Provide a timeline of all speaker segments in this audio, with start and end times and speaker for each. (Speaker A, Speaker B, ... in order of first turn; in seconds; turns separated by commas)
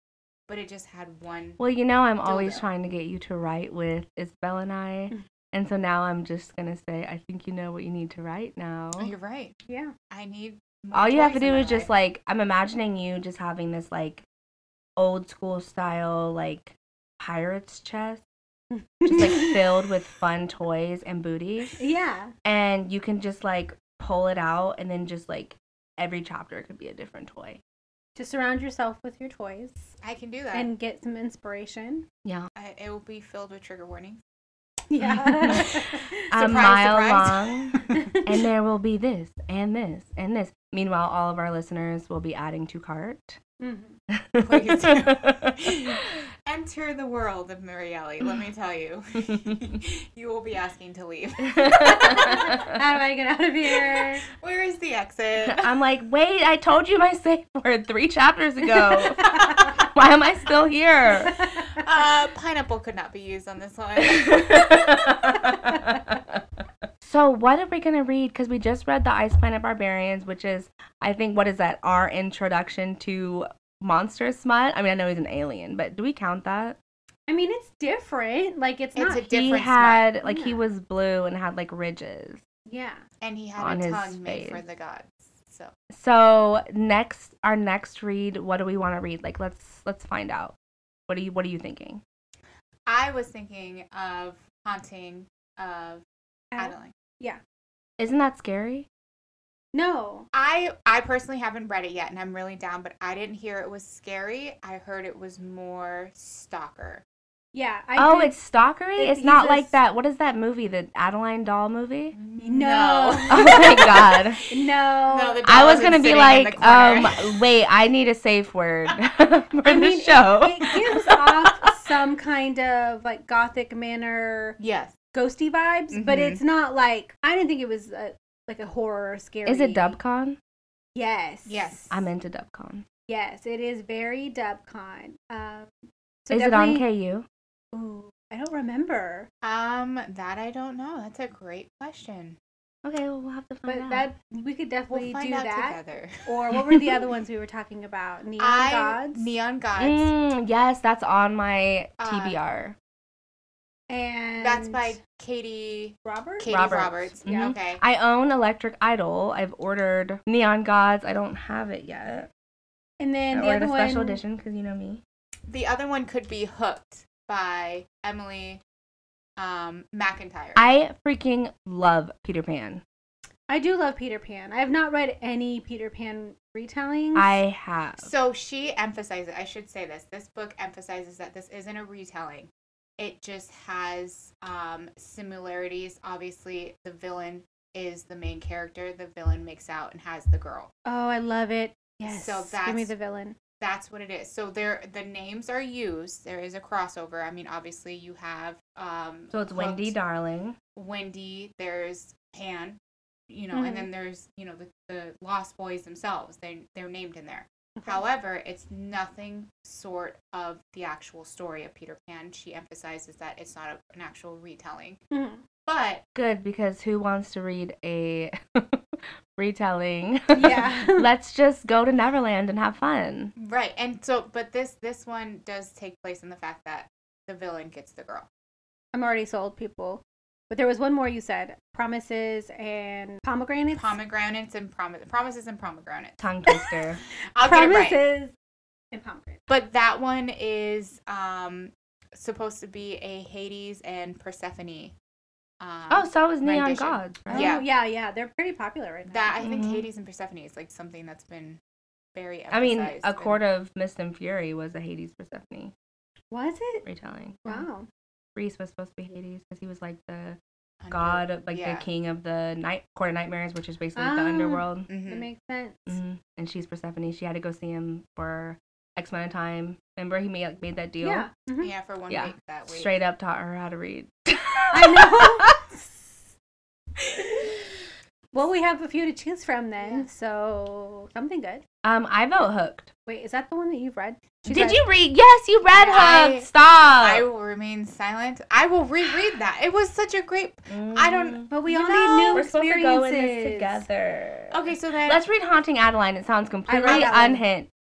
Speaker A: 0.5-1.6, Speaker B: 1.6-9.1, Speaker A: 2.2-2.6, Speaker A: 9.0-9.6, Speaker C: 9.7-9.9, Speaker A: 10.1-11.9, Speaker B: 10.9-14.2, Speaker B: 15.0-18.2, Speaker C: 18.7-19.6, Speaker B: 19.1-21.7, Speaker C: 21.8-22.3, Speaker B: 22.4-27.6, Speaker C: 28.1-29.9, Speaker A: 30.0-30.7, Speaker C: 30.5-32.0, Speaker B: 32.2-32.5, Speaker A: 32.5-34.2, Speaker C: 34.9-36.3, Speaker B: 35.0-43.4, Speaker A: 35.5-38.0, Speaker C: 37.9-38.3, Speaker C: 43.6-44.0, Speaker B: 44.1-46.0, Speaker A: 44.4-52.4, Speaker B: 51.4-52.8, Speaker C: 51.8-54.2, Speaker A: 54.0-55.7, Speaker B: 55.4-61.4, Speaker C: 59.2-59.7, Speaker A: 59.2-59.7, Speaker C: 61.2-61.8, Speaker A: 61.7-64.8, Speaker B: 64.0-66.4, Speaker C: 65.3-66.0, Speaker B: 67.0-76.8, Speaker C: 77.3-79.3, Speaker A: 79.0-80.1, Speaker B: 79.3-82.4, Speaker C: 80.2-80.7, Speaker C: 82.7-83.0, Speaker A: 83.2-85.7, Speaker B: 83.6-84.6, Speaker B: 85.9-90.5, Speaker B: 91.1-92.0, Speaker A: 92.8-96.0, Speaker C: 96.5-97.4, Speaker A: 96.6-96.9, Speaker B: 98.0-98.9, Speaker C: 99.7-100.3, Speaker A: 100.3-107.0, Speaker C: 107.5-108.3, Speaker B: 108.0-112.2, Speaker C: 109.0-109.7, Speaker A: 112.1-114.2, Speaker C: 112.4-115.4, Speaker B: 113.3-114.4, Speaker A: 115.1-117.2, Speaker B: 115.4-121.7, Speaker C: 119.7-124.6, Speaker A: 124.6-124.9, Speaker C: 125.1-130.0, Speaker A: 125.9-126.4, Speaker B: 129.4-130.4, Speaker C: 130.9-131.7, Speaker A: 131.5-132.0, Speaker B: 131.9-132.8, Speaker C: 133.1-136.8, Speaker B: 136.3-137.2, Speaker C: 137.7-139.3, Speaker A: 139.4-142.4, Speaker B: 142.8-144.1, Speaker C: 143.7-149.3, Speaker A: 144.9-146.3, Speaker A: 148.4-150.1, Speaker B: 149.8-152.8, Speaker A: 152.0-152.4, Speaker C: 153.9-155.0, Speaker A: 154.4-157.8, Speaker C: 156.0-156.7, Speaker B: 156.5-162.3, Speaker C: 157.3-157.5, Speaker C: 163.0-164.2, Speaker B: 163.3-165.0, Speaker A: 165.5-168.6, Speaker A: 169.4-170.6, Speaker B: 170.6-172.8, Speaker C: 173.5-177.4, Speaker B: 177.1-178.1, Speaker A: 178.0-190.7, Speaker C: 190.8-193.4, Speaker A: 192.1-192.9, Speaker A: 193.6-199.9, Speaker B: 199.3-200.6, Speaker A: 200.7-215.0, Speaker C: 203.5-203.9, Speaker C: 207.8-208.0, Speaker C: 215.1-215.4, Speaker A: 215.7-216.0, Speaker B: 216.1-218.8, Speaker B: 219.3-223.3, Speaker C: 220.3-221.1, Speaker A: 223.4-228.3, Speaker C: 228.9-233.9, Speaker A: 233.7-236.2, Speaker B: 236.2-237.0, Speaker A: 237.3-238.0, Speaker C: 237.4-238.3, Speaker C: 238.9-239.4, Speaker A: 239.5-244.9, Speaker A: 245.6-247.7, Speaker B: 245.9-247.6, Speaker C: 247.3-249.4, Speaker A: 249.1-251.6, Speaker B: 249.4-249.9, Speaker A: 252.1-253.4, Speaker B: 252.5-255.7, Speaker C: 256.3-256.8, Speaker B: 256.8-257.7, Speaker C: 257.4-257.9, Speaker B: 258.3-260.4, Speaker A: 260.8-261.8, Speaker B: 260.9-264.9, Speaker C: 263.9-265.9, Speaker A: 264.9-265.2, Speaker B: 265.9-271.3, Speaker C: 271.0-271.7, Speaker A: 271.6-272.9, Speaker B: 272.1-275.6, Speaker C: 274.7-275.8, Speaker B: 277.1-277.5, Speaker C: 278.3-281.6, Speaker B: 281.8-282.9, Speaker C: 283.1-284.8, Speaker B: 284.5-287.2, Speaker A: 285.8-292.4, Speaker B: 290.7-291.6, Speaker C: 291.5-293.8, Speaker B: 292.3-297.7, Speaker A: 294.5-295.2, Speaker C: 296.7-297.4